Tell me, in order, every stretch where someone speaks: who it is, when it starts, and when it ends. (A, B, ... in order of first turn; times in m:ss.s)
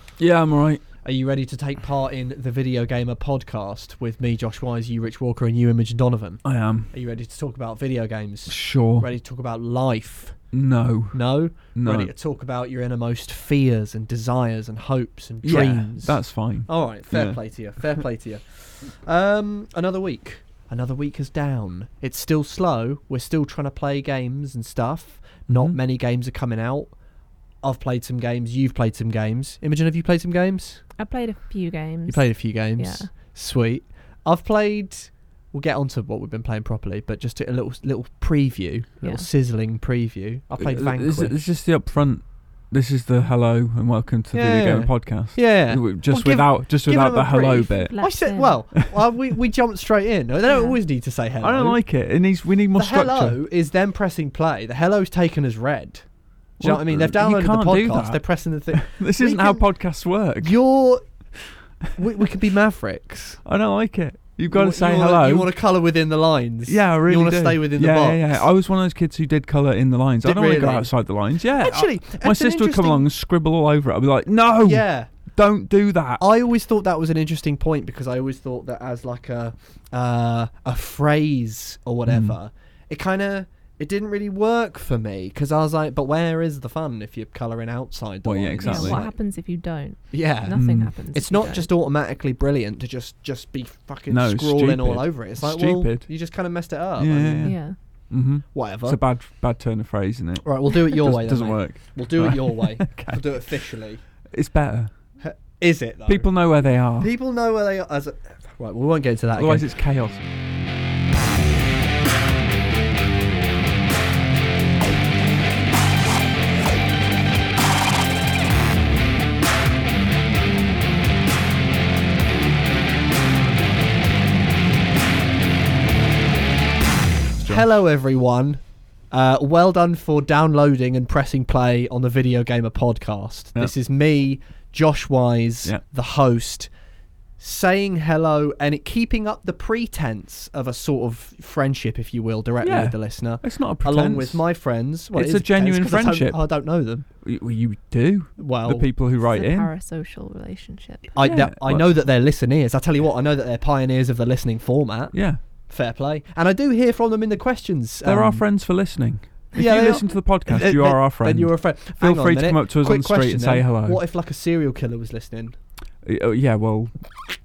0:00.2-0:00.8 A
0:01.0-0:10.5 B
0:06.4-0:06.9 A
0:08.5-0:09.1 A
0:10.5-0:12.1 A
0:11.1-0:26.9 B
0:15.4-0:17.4 A
0:25.5-0:25.8 A
0:27.6-0:30.9 B
0:31.0-0:33.1 C
0:32.0-0:41.5 B
0:39.0-0:39.3 C
0:40.6-0:48.0 A
0:44.3-0:51.8 B
0:47.7-0:48.8 C
0:50.4-0:50.8 C
0:51.4-0:53.4 A
0:52.7-1:03.4 B
0:56.6-1:00.6 A
1:03.4-1:05.5 A
1:04.5-1:08.5 B
1:06.6-1:16.2 A
1:10.2-1:13.1 B
1:14.6-1:15.1 B
1:16.2-1:29.2 B
1:22.1-1:22.4 A
1:28.2-1:29.0 A
1:28.6-1:31.7 C
1:30.1-1:37.7 B
1:30.5-1:30.9 A
1:34.1-1:36.3 A
1:37.0-1:43.6 A
1:37.4-1:37.8 C
1:38.5-1:39.0 B
1:40.4-1:44.0 B
1:44.3-1:44.9 A
1:45.2-1:46.3 B
1:46.0-1:47.1 A
1:47.0-1:49.8 B
1:49.4-1:50.2 A
2:07.4-2:07.6 A
2:07.4-2:16.7 B
2:17.4-2:27.0 B
2:22.6-2:24.5 A
2:25.1-2:26.5 A
2:27.2-2:29.7 A
2:28.4-2:28.9 B
2:29.2-2:31.2 C
2:31.1-2:38.4 B
2:31.2-2:32.0 A
2:35.1-2:35.4 A
2:38.0-2:44.0 A
2:39.5-2:45.6 B
2:46.0-2:47.2 A